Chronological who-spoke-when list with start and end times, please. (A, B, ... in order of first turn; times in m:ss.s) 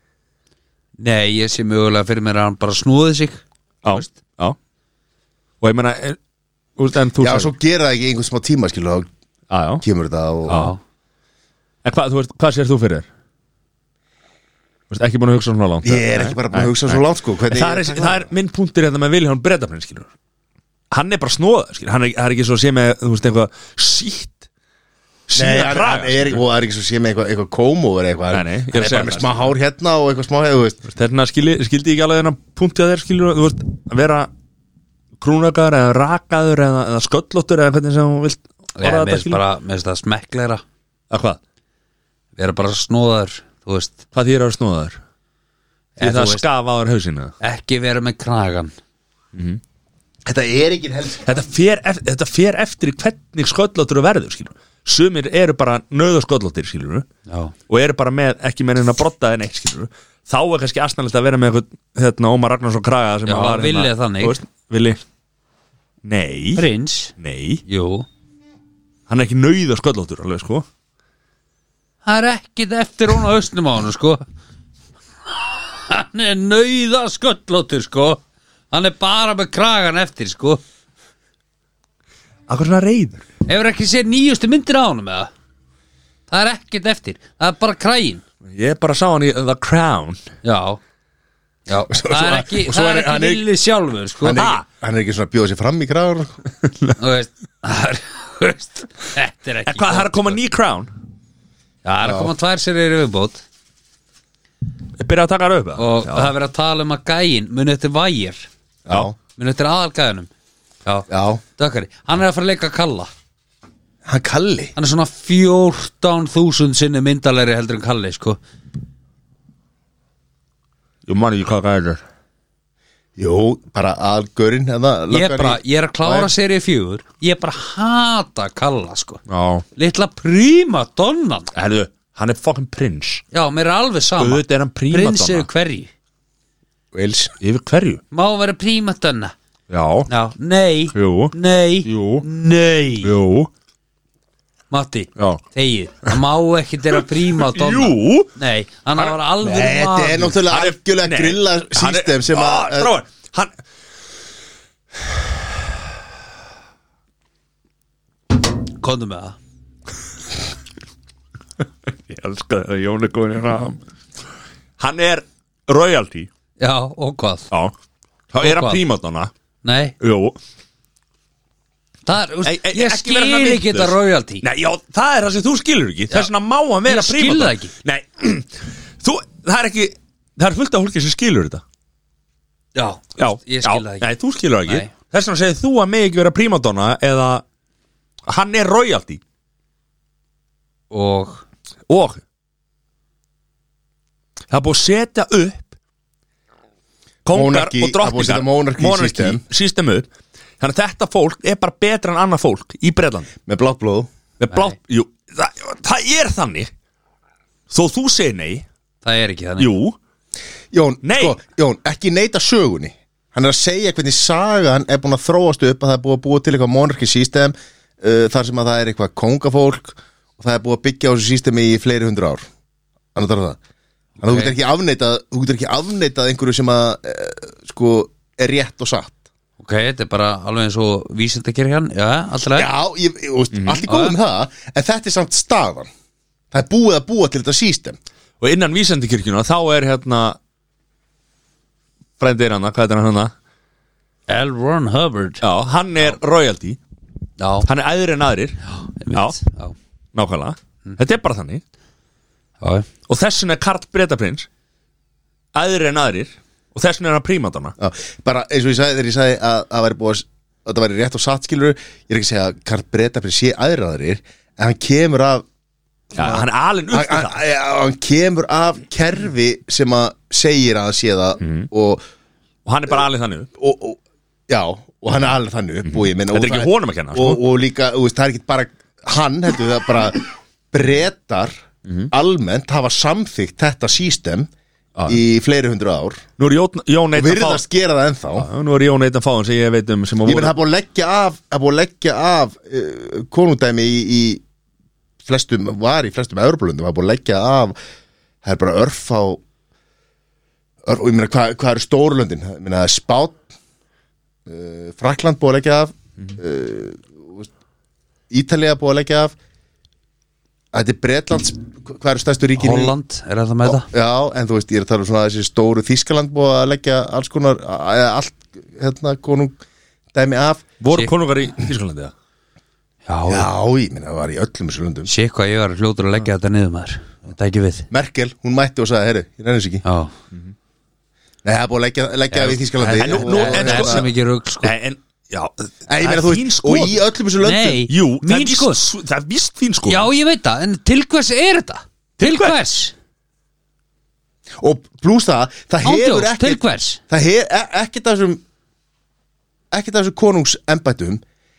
0:01.0-0:04.1 A
0:03.8-0:04.6 B
0:05.6-0:06.2 B
0:06.8-0:07.5 B
0:07.2-0:09.1 C
0:09.5-0:09.8 B
0:09.8-0:10.7 C
0:10.5-0:10.7 B
0:10.5-0:10.8 A
0:11.8-0:13.1 B
0:14.9-0:20.1 B
0:15.8-0:18.3 C
0:20.9-0:24.4 B
0:25.3-0:26.4 B
0:25.3-0:30.8 C
0:28.3-0:29.5 B
0:30.9-0:34.3 B
0:35.2-0:39.4 B
0:38.8-0:40.6 A
0:41.1-0:41.4 B
0:42.4-0:44.0 A
0:44.1-0:45.0 B
0:46.0-0:46.4 A
0:46.0-0:47.3 B
0:47.4-0:48.7 A
0:49.3-0:49.6 B
0:50.2-0:51.4 C
0:51.2-0:57.0 B
0:57.3-0:57.5 A
0:57.7-1:05.0 B
1:03.2-1:04.4 A
1:06.0-1:06.6 B
1:06.6-1:07.1 A
1:07.2-1:07.6 B
1:07.6-1:08.1 A
1:09.1-1:10.6 B
1:12.0-1:14.2 A
1:15.3-1:20.6 A
1:22.5-1:23.2 B
1:23.4-1:25.3 A
1:26.3-1:28.2 A
1:28.4-1:30.2 B
1:30.4-1:30.8 A
1:31.7-1:34.5 A
1:31.9-1:33.4 C
1:34.2-1:36.4 C
1:34.3-1:34.6 B
1:36.6-1:36.9 B
1:37.0-1:40.4 A
1:39.7-1:40.9 B
1:41.8-1:43.4 A
1:42.0-1:42.3 C
1:45.0-1:46.3 B
1:45.8-1:48.5 A
1:48.8-1:49.1 C
1:49.4-1:50.3 A
1:50.8-1:53.1 A
1:51.1-1:51.4 C
1:54.0-1:54.7 C
1:54.8-1:58.4 A
2:01.0-2:02.0 B
2:03.2-2:06.3 C
2:05.1-2:09.2 A
2:09.3-2:09.6 B
2:09.8-2:11.5 A
2:11.5-2:13.2 B
2:13.3-2:15.9 A
2:14.2-2:15.5 B
2:16.9-2:17.3 C
2:17.4-2:18.0 B
2:18.1-2:19.3 A
2:19.7-2:20.1 B
2:20.1-2:23.1 A
2:20.9-2:21.3 B
2:21.8-2:22.2 B
2:23.0-2:23.5 B
2:24.7-2:30.4 A
2:25.2-2:25.4 B
2:27.0-2:28.3 B
2:29.4-2:32.9 C
2:30.4-2:33.5 B
2:38.8-2:39.4 A
2:41.9-2:43.8 B
2:44.8-2:46.3 B
2:46.6-2:47.5 A
2:48.3-2:49.3 B
2:48.4-2:48.8 A
2:49.6-2:50.0 A
2:50.0-2:50.4 B
2:52.0-2:54.4 A
2:52.4-3:01.6 B
2:56.8-2:57.7 A
3:02.7-3:04.1 A
3:03.2-3:07.4 B
3:04.6-3:04.9 A
3:08.2-3:09.2 B
3:10.9-3:11.4 A
3:11.9-3:12.2 B
3:14.5-3:15.7 B
3:17.2-3:23.3 B
3:17.3-3:19.4 C
3:23.4-3:24.1 C
3:24.4-3:26.7 B
3:27.7-3:28.6 B
3:29.0-3:29.7 A
3:29.6-3:30.0 B
3:30.7-3:42.4 C
3:31.0-3:31.4 B
3:43.1-3:43.6 C
3:44.2-3:44.5 A
3:44.2-3:49.2 C
3:49.6-3:52.7 A
3:52.5-3:55.9 C
3:53.5-3:53.8 B
3:53.9-3:54.1 A
3:56.5-3:58.0 C
3:58.4-4:00.4 B
4:02.2-4:03.3 B
4:04.3-4:05.4 A
4:05.4-4:06.8 B
4:07.4-4:07.7 A
4:07.6-4:08.6 B
4:08.7-4:09.8 A
4:09.1-4:09.4 B
4:10.1-4:11.6 B
4:12.6-4:12.9 A
4:13.1-4:14.5 B
4:15.5-4:17.7 B
4:17.8-4:25.4 C
4:26.1-4:27.4 B
4:26.1-4:32.0 C
4:31.4-4:31.7 B
4:32.6-4:33.5 B
4:33.6-4:41.5 C
4:35.9-4:37.4 B
4:42.1-4:44.5 C
4:45.1-4:46.2 C
4:46.4-4:47.6 B
4:47.2-4:48.5 C
4:48.3-4:50.6 B
4:50.2-4:54.4 C
4:55.2-4:57.8 C
4:58.4-4:59.4 C
5:00.8-5:03.4 C
5:04.4-5:07.5 C
5:08.3-5:09.3 C
5:10.7-5:12.9 C
5:12.6-5:13.9 A
5:13.6-5:19.6 C
5:20.1-5:20.7 C
5:20.8-5:22.1 B
5:23.1-5:23.5 A
5:23.3-5:25.1 C
5:25.0-5:27.9 A
5:27.9-5:29.8 C
5:29.8-5:30.1 A
5:31.4-5:34.1 C
5:32.3-5:34.7 A
5:32.9-5:34.1 B
5:34.6-5:37.0 B
5:35.9-5:37.8 C
5:37.4-5:38.8 A
5:37.9-5:40.1 B
5:39.8-5:42.9 A
5:42.2-5:42.6 B
5:44.6-5:48.4 C
5:45.8-5:47.0 A
5:49.7-5:51.2 C